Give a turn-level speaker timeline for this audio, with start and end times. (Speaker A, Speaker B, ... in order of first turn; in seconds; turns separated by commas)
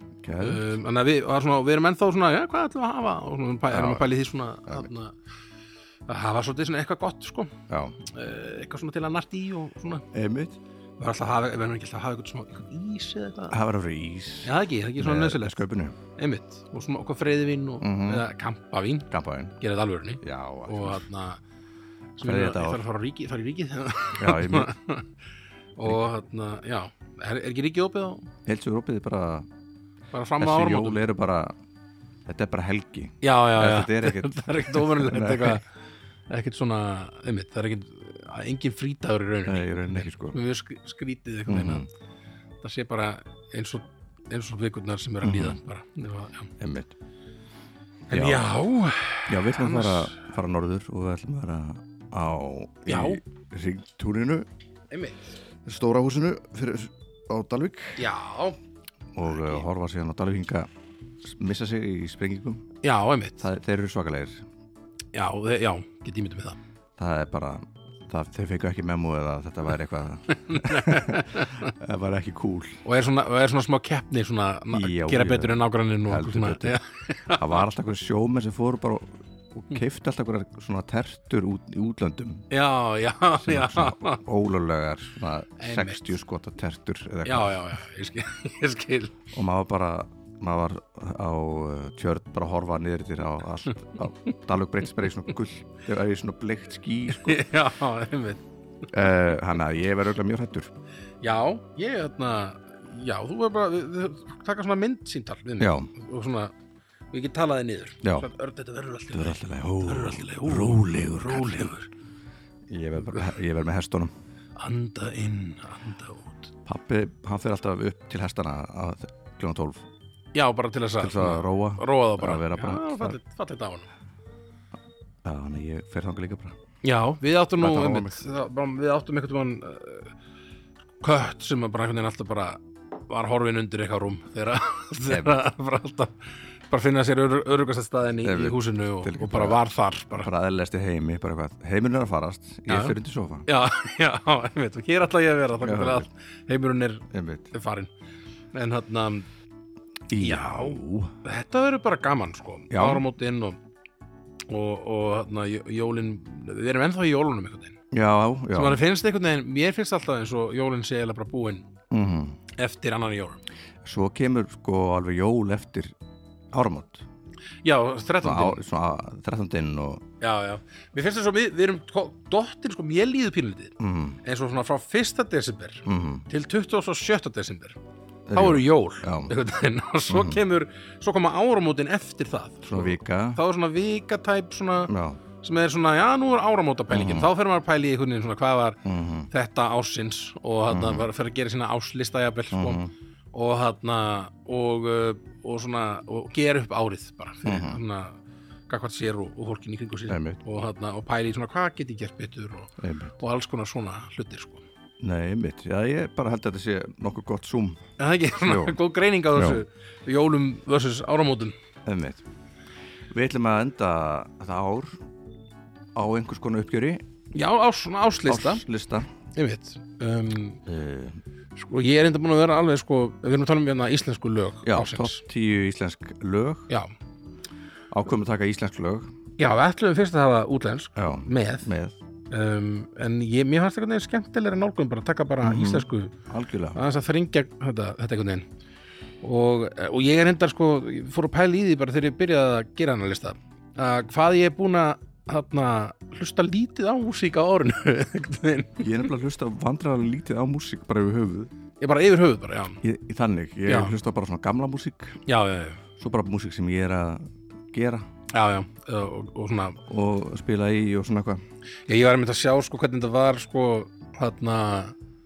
Speaker A: 0.2-0.7, Speaker B: 0.4-5.2, Speaker A: 3.7-4.1, Speaker B: 6.1-10.1, Speaker A: 7.7-8.0, Speaker A: 10.1-10.6, Speaker B: 11.0-13.6, Speaker A: 13.5-16.0, Speaker B: 14.4-15.6, Speaker B: 16.2-21.4, Speaker A: 17.8-18.3, Speaker A: 19.1-19.6, Speaker A: 20.2-21.0, Speaker B: 22.2-25.1, Speaker A: 22.2-22.8, Speaker A: 24.2-24.7, Speaker B: 25.8-28.3, Speaker A: 28.5-29.5, Speaker B: 30.1-31.0, Speaker A: 30.4-31.6, Speaker A: 32.3-35.6, Speaker B: 33.2-35.6, Speaker B: 36.3-41.9, Speaker A: 39.5-40.4, Speaker A: 41.5-41.9, Speaker B: 42.6-46.5, Speaker A: 45.2-45.6, Speaker A: 46.6-47.0, Speaker B: 48.1-50.2, Speaker A: 48.1-48.5, Speaker A: 49.3-54.5, Speaker B: 52.9-53.2, Speaker B: 54.9-55.4, Speaker A: 55.6-58.0, Speaker B: 58.0-58.6, Speaker A: 59.1-60.7, Speaker B: 59.4-59.6, Speaker A: 61.2-62.6, Speaker B: 62.8-63.4, Speaker A: 63.4-64.5, Speaker B: 65.1-66.6, Speaker A: 67.0-72.8, Speaker B: 70.3-71.7, Speaker B: 72.8-77.6, Speaker A: 74.7-76.8, Speaker A: 77.3-82.5, Speaker B: 82.5-84.2, Speaker A: 83.4-87.6, Speaker B: 85.6-86.1, Speaker B: 87.2-89.2, Speaker A: 89.3-97.4, Speaker B: 97.1-98.4, Speaker A: 98.9-100.7, Speaker B: 101.2-106.5, Speaker A: 105.6-105.9, Speaker B: 107.1-111.9, Speaker A: 109.1-111.7, Speaker A: 112.7-114.1, Speaker B: 113.0-113.3, Speaker B: 114.6-116.5, Speaker A: 116.7-119.9, Speaker B: 120.3-123.9, Speaker A: 121.0-123.2, Speaker A: 125.2-126.6, Speaker B: 126.8-130.1, Speaker A: 127.6-128.2, Speaker B: 131.0-136.2, Speaker A: 135.1-135.4, Speaker B: 136.7-140.3, Speaker A: 138.2-139.6, Speaker A: 140.2-143.5, Speaker B: 142.7-147.9, Speaker A: 145.6-146.1, Speaker A: 147.1-147.5, Speaker B: 148.5-149.3, Speaker A: 150.1-151.1, Speaker B: 150.2-153.6, Speaker A: 152.7-153.1, Speaker B: 154.5-157.8, Speaker A: 157.9-158.8, Speaker B: 158.5-161.7, Speaker A: 161.9-162.4, Speaker B: 162.6-163.4, Speaker A: 163.8-166.0, Speaker A: 166.5-167.1, Speaker B: 167.6-168.6, Speaker A: 168.2-170.0, Speaker B: 170.2-177.8, Speaker A: 173.8-174.2, Speaker A: 175.9-176.3, Speaker A: 178.3-179.3, Speaker B: 178.3-192.8, Speaker A: 180.1-180.4, Speaker A: 182.6-183.4, Speaker A: 184.9-185.2, Speaker A: 186.9-187.3, Speaker A: 188.8-189.3, Speaker A: 190.7-191.1, Speaker A: 192.5-192.9, Speaker B: 193.3-204.7, Speaker A: 197.4-197.8, Speaker A: 200.1-200.4, Speaker A: 202.8-203.1, Speaker A: 205.0-208.8, Speaker B: 208.0-211.6, Speaker A: 209.3-209.6, Speaker A: 211.8-212.2, Speaker A: 213.1-215.0, Speaker A: 215.9-217.0, Speaker B: 217.3-218.6, Speaker A: 218.3-219.1, Speaker B: 219.3-220.6, Speaker A: 220.7-221.2, Speaker B: 221.6-225.2, Speaker A: 224.6-226.7, Speaker A: 227.9-229.1, Speaker B: 229.4-231.7, Speaker A: 231.0-232.0, Speaker B: 232.3-236.1, Speaker A: 235.4-236.8, Speaker B: 236.8-238.5, Speaker B: 239.2-248.9, Speaker A: 248.8-251.5, Speaker B: 251.8-252.8, Speaker A: 252.8-255.2, Speaker B: 253.7-254.0, Speaker B: 255.3-255.8, Speaker A: 256.0-258.1, Speaker B: 258.3-259.8, Speaker A: 259.9-261.4, Speaker B: 261.9-265.0